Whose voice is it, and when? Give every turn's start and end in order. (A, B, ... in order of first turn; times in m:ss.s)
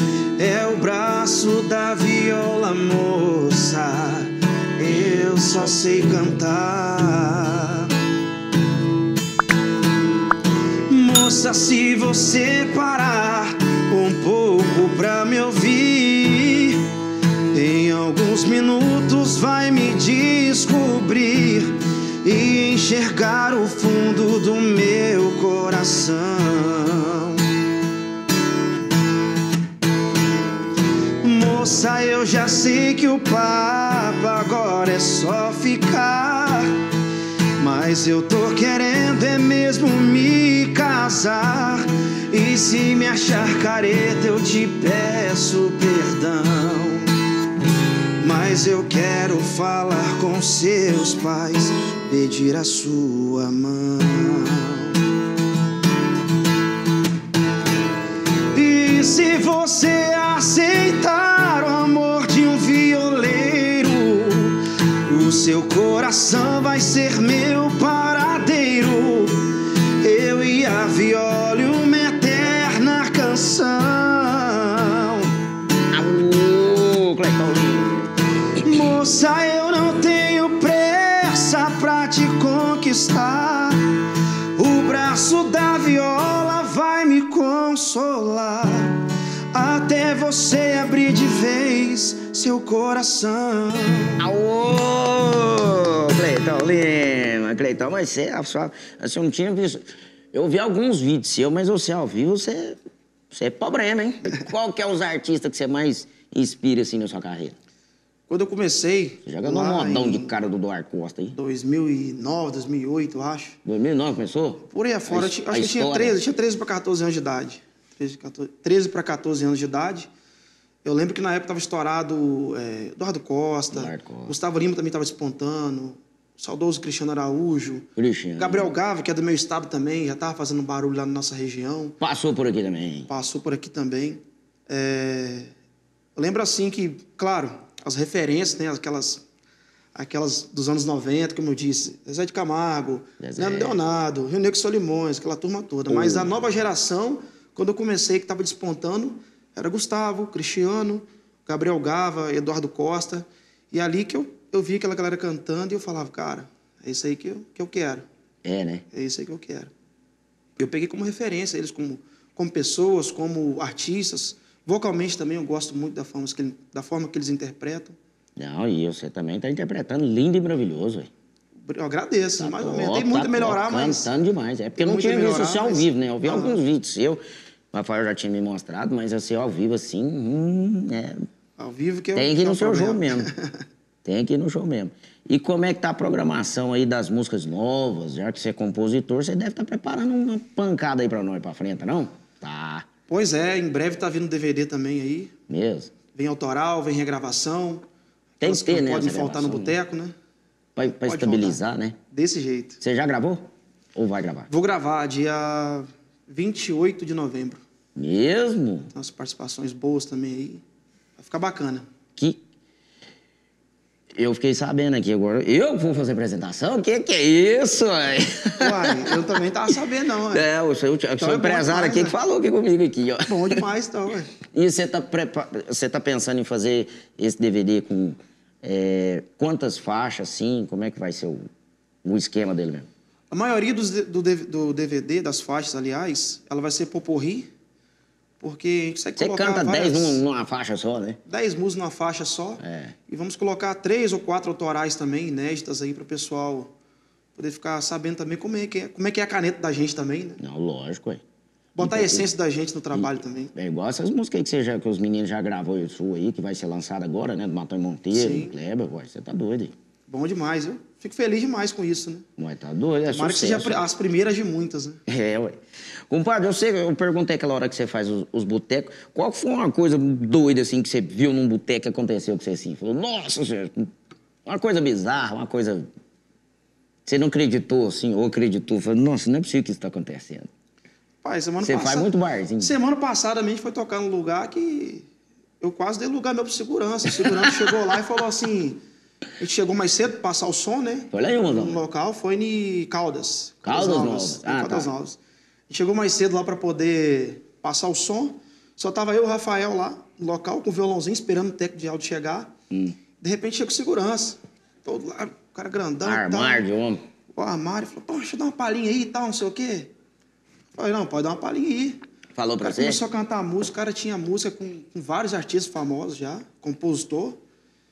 0:00.4-0:07.9 A
0:05.4-0:06.4 B
0:10.9-0:16.9 A
0:17.5-0:27.5 A
0:31.2-0:36.8 A
0:37.6-0:47.1 A
0:48.2-0:55.0 A
0:58.5-1:15.3 A
1:15.9-1:18.1 B
1:18.6-1:24.0 A
1:24.6-1:34.2 A
1:34.2-1:42.8 B
1:43.3-1:47.6 B
1:48.3-1:50.3 A
1:49.2-1:51.4 B
1:51.4-1:53.6 A
1:53.6-1:56.2 B
1:54.6-2:00.1 A
2:00.8-2:12.0 A
2:03.7-2:04.3 B
2:08.0-2:08.7 B
2:12.0-2:13.1 B
2:13.1-2:15.5 A
2:16.2-2:19.2 A
2:20.0-2:38.1 A
2:23.2-2:23.8 B
2:25.9-2:26.3 B
2:38.4-2:38.8 B
2:38.9-2:39.7 A
2:40.6-2:48.0 A
2:48.4-2:51.1 B
2:51.6-2:54.1 A
2:52.4-2:57.2 B
2:54.8-2:56.6 A
2:57.7-3:01.3 B
3:01.6-3:03.6 A
3:02.2-3:03.3 B
3:04.0-3:12.9 B
3:13.1-3:15.3 A
3:15.5-3:15.9 B
3:16.1-3:17.8 A
3:18.4-3:20.2 A
3:18.4-3:19.8 B
3:20.8-3:22.0 B
3:20.9-3:21.6 A
3:22.1-3:22.8 A
3:22.8-3:24.5 B
3:24.5-3:27.6 A
3:28.0-3:28.9 B
3:28.9-3:30.6 A
3:31.2-3:31.8 A
3:32.2-3:32.4 B
3:34.2-3:39.2 B
3:38.6-3:40.5 A
3:40.3-3:43.6 B
3:41.2-3:42.2 A
3:43.3-3:44.3 A
3:44.5-3:51.5 B
3:52.0-3:52.9 B
3:53.3-3:57.5 A
3:58.4-4:00.2 A
3:59.2-4:01.2 B
4:01.3-4:06.7 A
4:02.6-4:03.0 B
4:07.4-4:10.4 A
4:10.4-4:11.2 B
4:11.8-4:13.5 A
4:11.8-4:12.3 B
4:12.9-4:19.7 B
4:18.1-4:18.6 A
4:20.1-4:22.3 A
4:22.4-4:23.8 B
4:23.1-4:25.0 A
4:25.1-4:33.9 B
4:34.4-4:35.9 B
4:37.1-4:40.5 B
4:41.2-4:45.1 A
4:41.6-4:42.7 B
4:45.6-4:48.8 A
4:47.2-4:47.5 B
4:49.4-5:02.5 A
4:51.1-4:51.8 B
4:53.6-4:54.9 B
5:02.7-5:03.0 B
5:03.2-5:06.6 A
5:06.0-5:07.0 B
5:07.3-5:09.9 A
5:10.7-5:12.0 A
5:12.4-5:13.0 B
5:12.6-5:17.4 A